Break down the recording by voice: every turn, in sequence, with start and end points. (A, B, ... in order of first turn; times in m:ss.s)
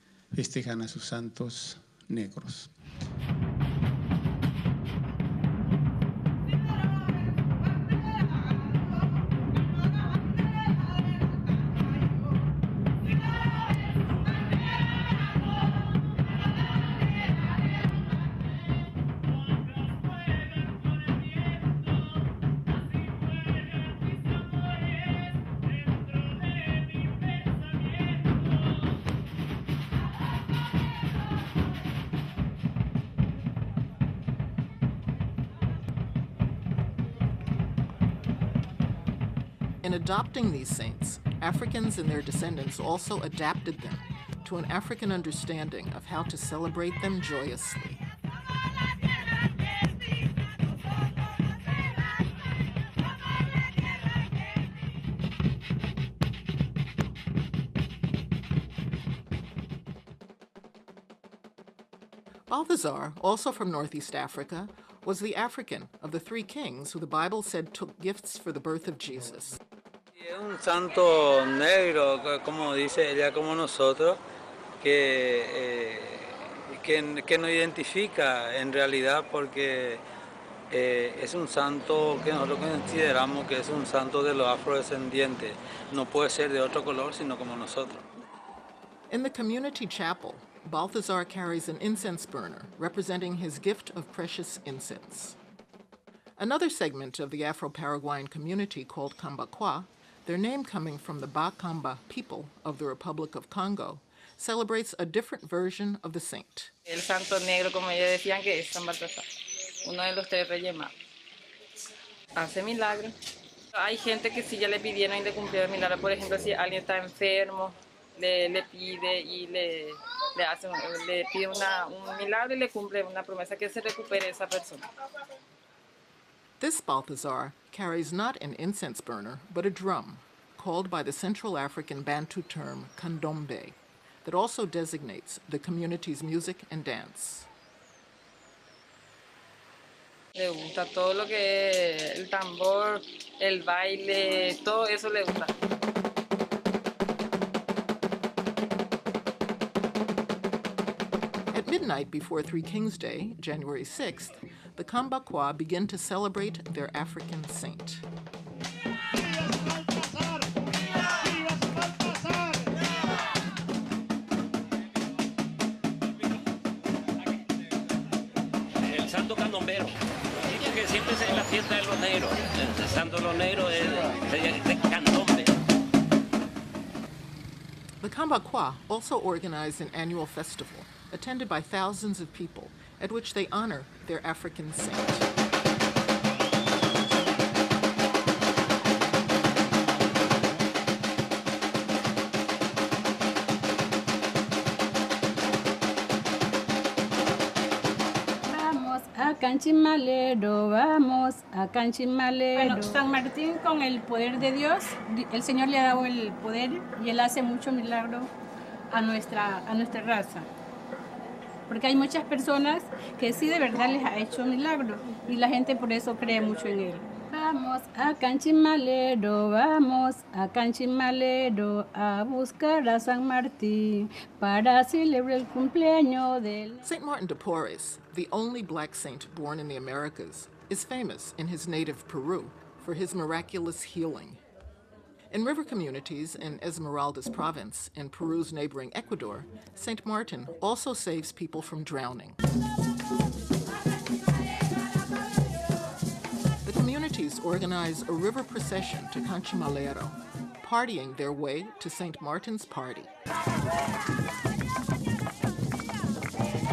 0:00.3-0:02.7 A
0:39.8-0:48.0 B
1:02.5-1:09.6 B
1:10.2-1:14.2 C
1:14.8-1:20.0 C
1:20.7-1:28.0 C
1:29.1-1:35.4 B
1:36.4-1:46.7 B
1:46.9-1:49.2 D
1:49.8-1:50.9 D
1:52.4-1:53.1 D
1:53.8-2:04.8 D
2:06.6-2:17.5 B
2:20.4-2:25.5 D
2:31.5-2:38.0 B
2:48.9-2:49.9 E
2:50.5-2:55.5 E
2:58.0-3:05.3 B
3:18.4-3:28.3 F
3:28.9-3:30.5 F
3:31.7-3:46.8 F
3:46.8-3:54.4 B
3:55.3-4:02.4 B
4:06.6-4:13.1 B